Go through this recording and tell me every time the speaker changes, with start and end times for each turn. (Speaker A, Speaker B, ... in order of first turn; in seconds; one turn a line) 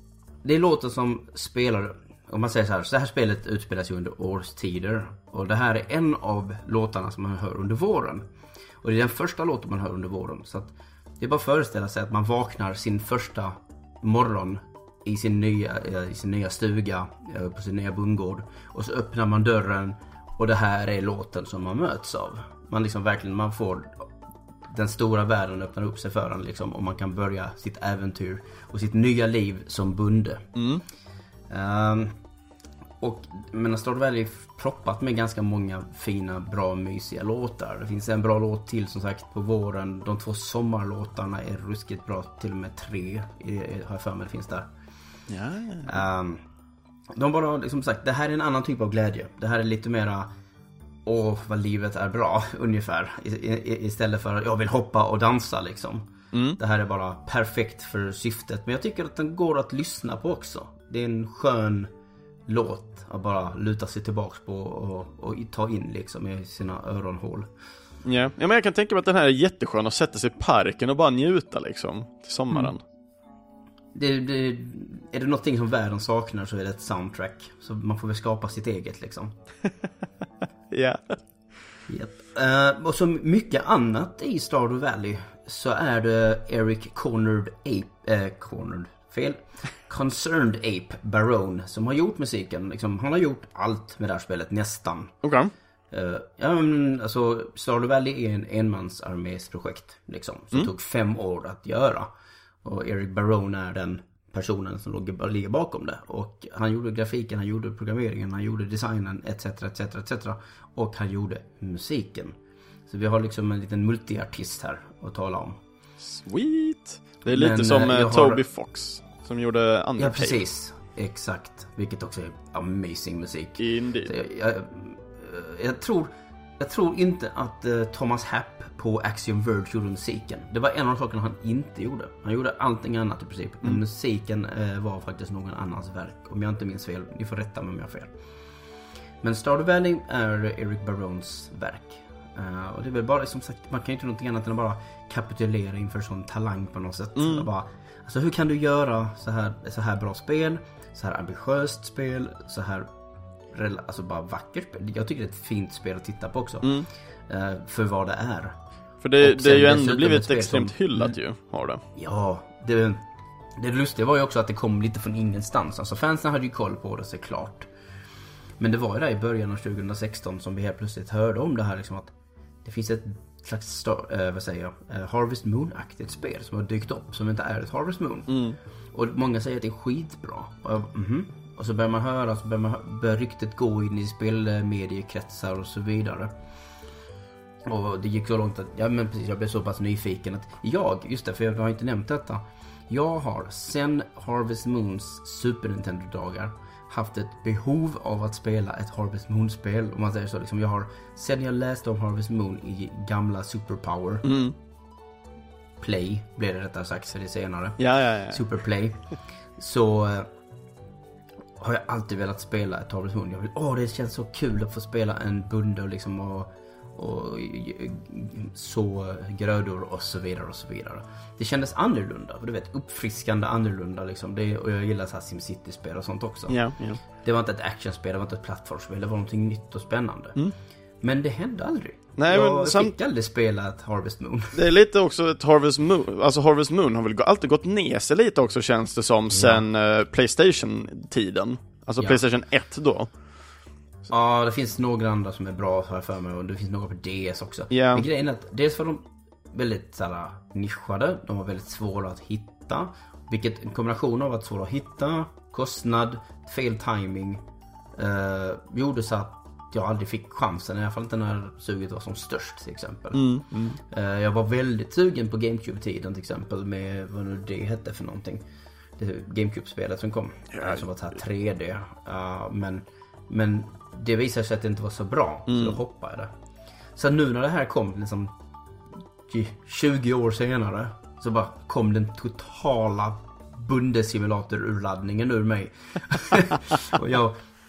Speaker A: 0.4-8.2
Speaker A: 8.8-24.1
Speaker A: 24.7-30.4
Speaker B: 30.6-30.8
Speaker A: 31.5-32.1
Speaker A: 33.0-44.7
Speaker B: 45.3-46.0
Speaker A: 45.9-46.4
Speaker A: 47.1-50.3
Speaker A: 51.0-61.9
Speaker B: 56.3-56.6
Speaker A: 62.5-67.5
Speaker B: 68.0-72.8
Speaker A: 73.9-79.3
Speaker B: 80.7-81.2
Speaker A: 81.9-95.1
Speaker B: 95.2-95.5
Speaker A: 95.9-102.1
Speaker A: 102.6-112.4
Speaker A: 112.9-115.6
Speaker B: 116.0-120.4
Speaker A: 117.3-118.4
Speaker A: 120.0-138.1
Speaker B: 123.6-124.1
Speaker A: 139.2-152.9
Speaker B: 147.2-147.5
Speaker A: 153.5-156.7
Speaker A: 157.3-158.6
Speaker B: 159.0-161.8
Speaker A: 159.2-161.2
Speaker A: 161.9-163.0
Speaker A: 163.6-167.7
Speaker A: 168.6-172.1
Speaker A: 172.6-178.4
Speaker B: 178.3-178.6
Speaker A: 178.9-186.3
Speaker A: 187.7-204.2
Speaker B: 204.2-204.5
Speaker A: 205.8-207.8
Speaker B: 207.8-208.4
Speaker A: 208.3-209.1
Speaker A: 209.6-210.3
Speaker A: 211.6-226.6
Speaker B: 226.5-227.0
Speaker A: 227.2-230.4
Speaker A: 231.0-234.6
Speaker B: 232.2-232.9
Speaker B: 234.5-243.1
Speaker A: 239.3-239.6
Speaker A: 244.1-257.4
Speaker B: 247.7-248.1
Speaker A: 257.9-268.4
Speaker B: 263.1-263.8
Speaker A: 269.0-276.3
Speaker B: 270.5-270.8
Speaker B: 275.5-275.8
Speaker A: 276.9-278.3
Speaker A: 279.3-287.4